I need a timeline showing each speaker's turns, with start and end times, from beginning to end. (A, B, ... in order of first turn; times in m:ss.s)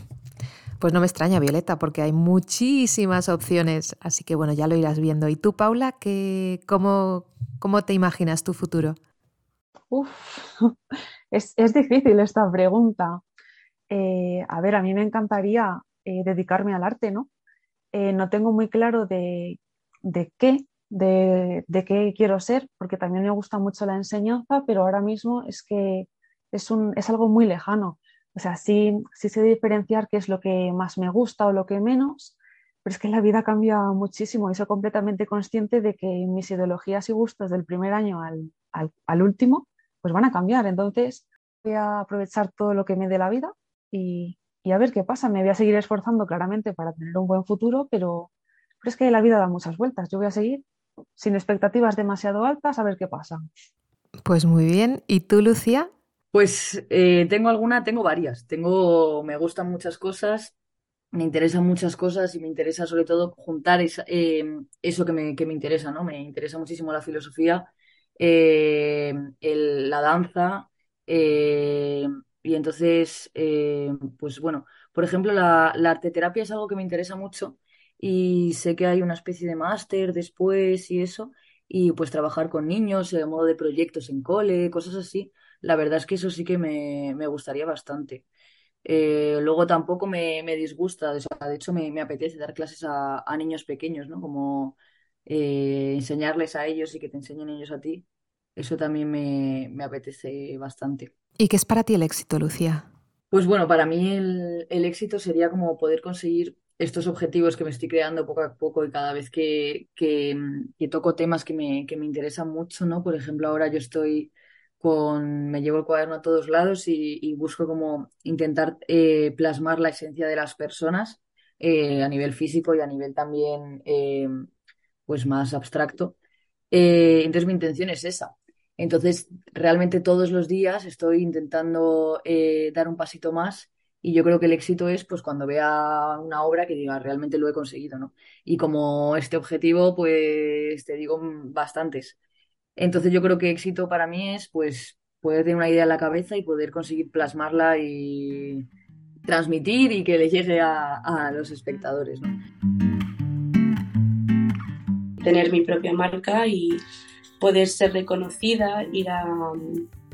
0:00.8-0:09.0 A
0:09.9-0:10.8 B
0:11.3-0:13.2 B
0:13.9-0:17.3 B
0:17.9-0:48.3 B
0:48.8-0:50.6 B
0:51.2-0:53.4 B
0:54.2-0:55.9 A
0:56.3-1:00.5 C
1:01.1-1:07.6 C
1:08.2-1:28.2 C
1:28.8-1:41.1 C
1:41.4-1:42.8 A
1:43.3-2:04.5 C
2:05.1-2:06.2 C
2:06.7-2:22.2 C
2:22.8-2:28.7 C
2:29.2-2:32.4 C
2:35.2-2:36.8 D
2:37.4-2:39.8 D